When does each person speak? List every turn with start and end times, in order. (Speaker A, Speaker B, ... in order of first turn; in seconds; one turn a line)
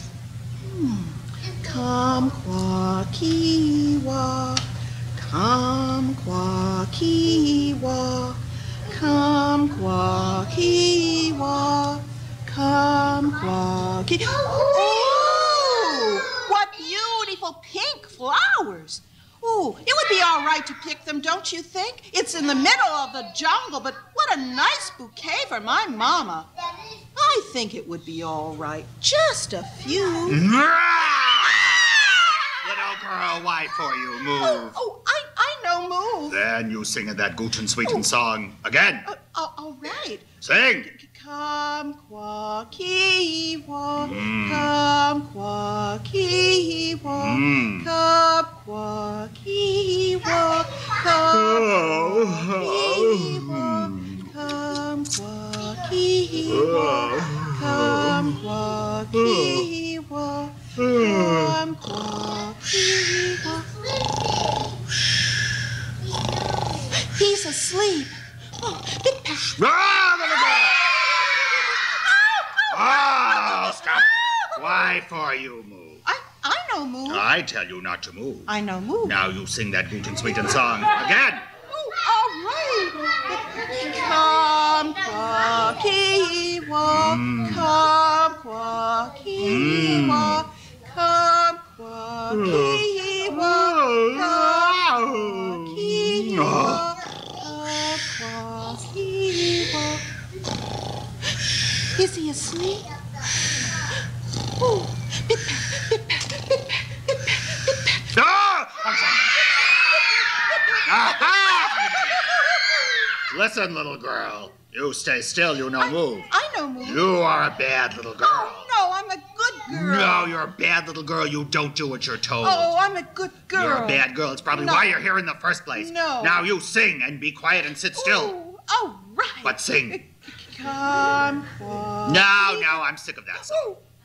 Speaker A: 0.6-26.5
Speaker A: 27.1-30.4
Speaker B: 30.2-34.8
Speaker A: 34.3-36.4
Speaker B: 36.3-39.1
Speaker A: 37.8-38.1
Speaker A: 39.0-63.8
Speaker B: 40.4-40.9
Speaker B: 44.0-44.7
Speaker B: 47.1-47.9
Speaker B: 51.3-54.3
Speaker B: 56.5-58.4
Speaker B: 59.1-59.7
Speaker B: 60.8-61.6
Speaker A: 66.9-69.6
Speaker B: 69.5-70.8
Speaker A: 71.9-72.7
Speaker B: 72.7-76.0
Speaker A: 76.0-77.2
Speaker B: 77.0-78.5
Speaker A: 78.5-79.2
Speaker B: 79.0-81.5
Speaker A: 81.7-100.0
Speaker B: 86.8-87.7
Speaker B: 89.4-90.4
Speaker B: 92.3-96.9
Speaker A: 101.9-103.0
Speaker A: 104.6-108.0
Speaker B: 108.1-109.5
Speaker B: 110.8-112.2
Speaker A: 111.6-113.2
Speaker B: 113.3-116.3
Speaker A: 115.8-117.1
Speaker B: 116.8-118.7
Speaker A: 118.2-120.3
Speaker B: 119.7-122.7
Speaker A: 122.4-125.0
Speaker B: 123.5-128.3
Speaker A: 125.7-126.4
Speaker A: 127.9-132.8
Speaker B: 129.4-130.0
Speaker B: 132.0-133.7
Speaker A: 133.4-133.8